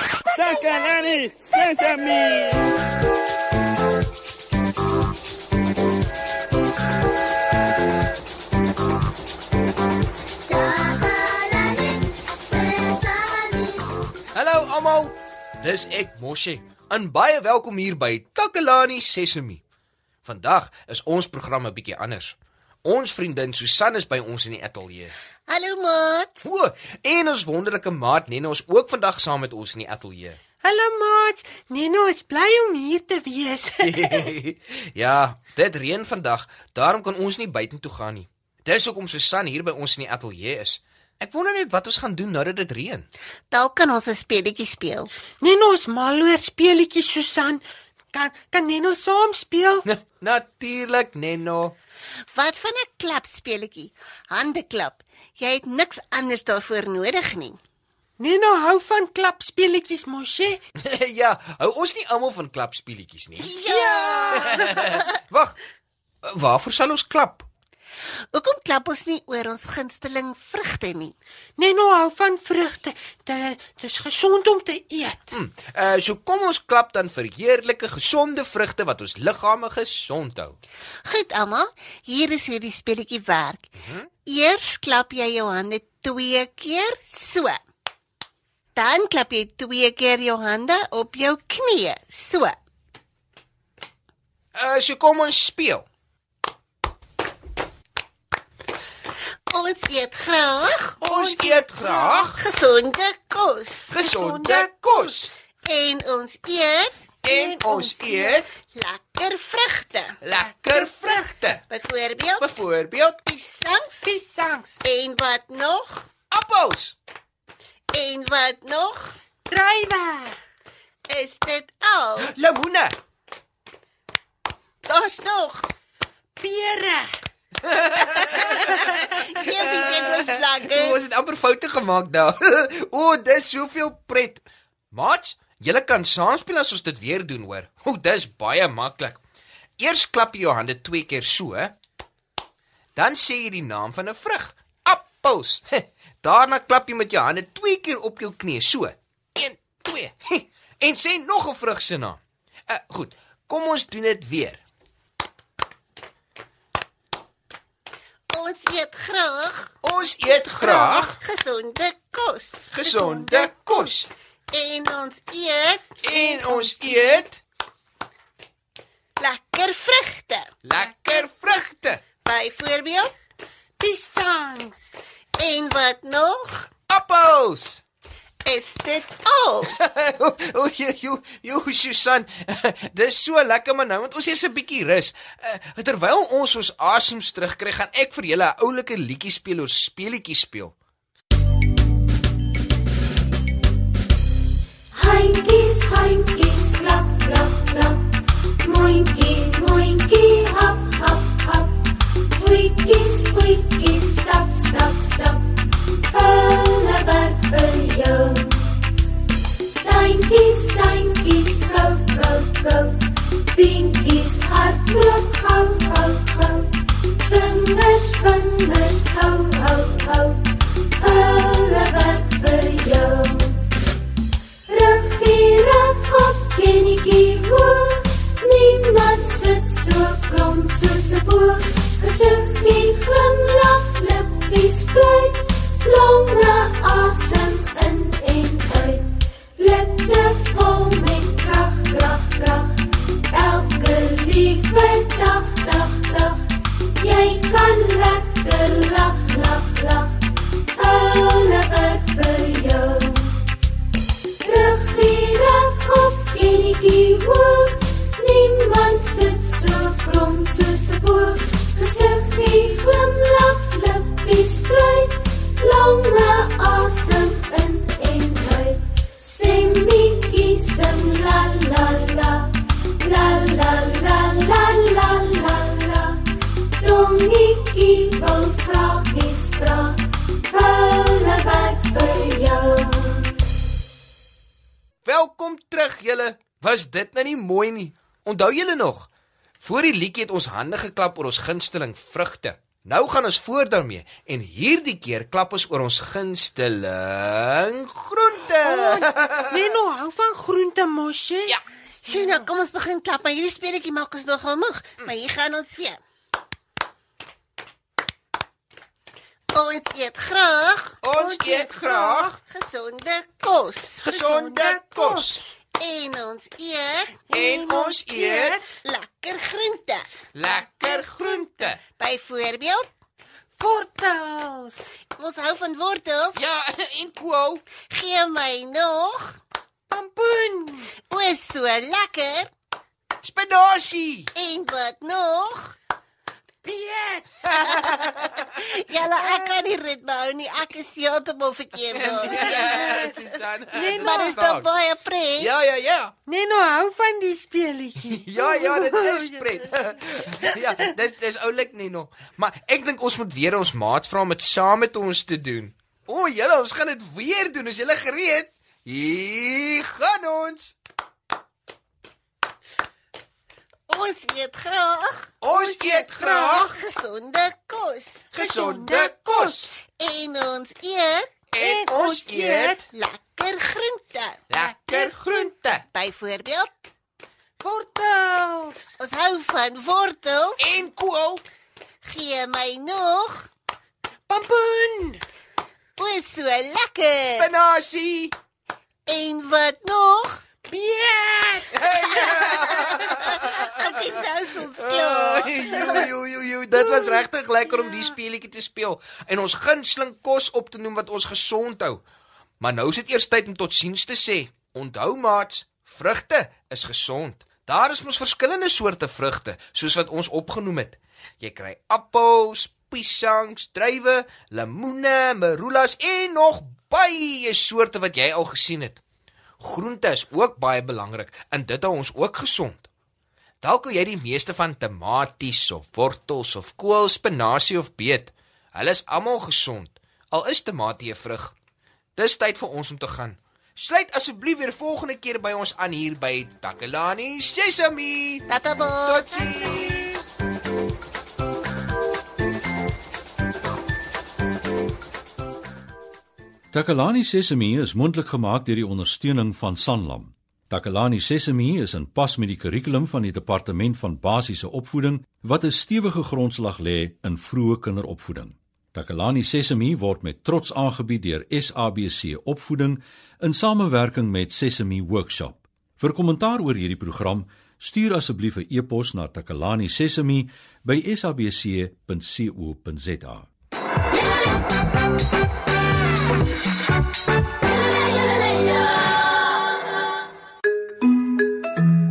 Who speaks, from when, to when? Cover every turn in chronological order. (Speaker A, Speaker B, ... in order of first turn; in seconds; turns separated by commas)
Speaker A: 0.4-0.9, Speaker A: 10.5-13.9, Speaker B: 14.3-19.6, Speaker B: 20.2-25.1, Speaker A: 25.5-26.5, Speaker B: 26.4-30.4, Speaker C: 30.6-34.3, Speaker B: 33.8-43.1, Speaker A: 43.5-45.1, Speaker C: 45.4-49.8, Speaker B: 49.8-51.7, Speaker A: 52.3-57.6, Speaker C: 58.2-60.6, Speaker B: 60.8-65.6, Speaker A: 63.4-65.0, Speaker B: 66.2-67.5, Speaker A: 68.3-71.1, Speaker C: 71.6-75.3, Speaker B: 75.3-80.6, Speaker A: 81.0-83.6, Speaker B: 83.8-84.1, Speaker A: 84.2-87.6, Speaker A: 88.8-92.5, Speaker B: 94.5-95.8, Speaker A: 99.5-101.0, Speaker B: 101.0-102.4, Speaker C: 101.0-102.2, Speaker A: 102.2-103.9, Speaker B: 103.9-105.3, Speaker C: 104.0-105.2, Speaker A: 105.6-106.9, Speaker B: 107.2-108.5, Speaker C: 107.3-108.4, Speaker A: 108.5-110.2, Speaker B: 110.2-111.6, Speaker C: 110.9-111.1, Speaker A: 111.7-112.5, Speaker B: 112.4-113.2, Speaker A: 113.2-114.0, Speaker C: 114.0-114.8, Speaker A: 114.8-116.1, Speaker B: 116.3-117.0, Speaker A: 117.9-119.2, Speaker C: 119.5-120.3, Speaker A: 121.1-122.3, Speaker B: 122.2-122.9, Speaker A: 124.8-125.7, Speaker C: 126.4-127.2, Speaker B: 127.7-129.0, Speaker A: 128.4-131.0, Speaker B: 129.6-139.2, Speaker B: 139.8-141.7, Speaker B: 142.9-154.6, Speaker A: 158.3-159.7, Speaker B: 159.8-161.2, Speaker A: 160.5-162.8, Speaker B: 162.7-164.1, Speaker C: 162.9-163.6, Speaker A: 164.5-167.2, Speaker B: 166.0-167.4, Speaker A: 169.2-170.5, Speaker B: 170.6-172.0, Speaker A: 172.2-173.1, Speaker C: 173.8-175.0, Speaker A: 175.4-176.7, Speaker B: 176.9-177.8, Speaker A: 178.4-179.7, Speaker B: 179.7-190.7, Speaker D: 194.9-208.8, Speaker D: 209.8-223.6, Speaker D: 224.7-253.4, Speaker D: 254.4-276.2, Speaker D: 276.8-283.4, Speaker B: 285.0-299.6, Speaker C: 298.6-301.5, Speaker A: 302.0-306.0, Speaker C: 302.1-302.4, Speaker A: 309.5-311.0, Speaker B: 311.0-312.4, Speaker C: 311.2-312.3, Speaker A: 312.4-314.2, Speaker B: 314.0-315.4, Speaker C: 314.1-315.5, Speaker A: 315.8-317.4, Speaker B: 317.3-318.6, Speaker C: 317.3-318.6, Speaker A: 318.8-320.1, Speaker B: 320.3-321.8, Speaker A: 322.0-322.9, Speaker C: 323.6-324.9, Speaker A: 325.2-326.4, Speaker B: 326.3-327.6, Speaker A: 327.9-329.4, Speaker C: 329.9-330.9, Speaker A: 331.0-332.5, Speaker B: 333.2-334.3, Speaker A: 334.3-335.8, Speaker C: 336.6-337.4, Speaker B: 337.6-338.4, Speaker A: 338.5-343.0, Speaker B: 341.9-344.7, Speaker C: 342.1-343.2, Speaker C: 343.7-344.4, Speaker A: 344.0-345.5, Speaker B: 345.4-346.1, Speaker C: 346.2-349.4, Speaker B: 348.1-360.7, Speaker A: 363.9-368.3, Speaker B: 365.4-366.7, Speaker B: 368.3-369.7, Speaker C: 368.4-369.7, Speaker A: 369.9-371.3, Speaker B: 371.5-372.8, Speaker C: 371.6-372.8, Speaker A: 372.9-374.4, Speaker B: 374.5-375.8, Speaker C: 374.7-375.1, Speaker A: 375.9-376.7, Speaker C: 377.6-378.9, Speaker A: 379.0-380.8, Speaker B: 380.6-381.4, Speaker A: 382.0-383.5, Speaker C: 384.3-385.2, Speaker A: 386.0-387.5, Speaker B: 387.4-388.3, Speaker A: 389.1-390.4, Speaker C: 390.6-391.8, Speaker B: 391.7-394.2, Speaker A: 391.9-396.0, Speaker C: 392.5-392.9, Speaker B: 394.8-402.0, Speaker B: 402.6-419.0, Speaker B: 419.6-422.9, Speaker B: 423.6-431.5, Speaker B: 432.1-438.5, Speaker A: 438.5-439.4, Speaker B: 439.0-440.1, Speaker E: 446.7-473.5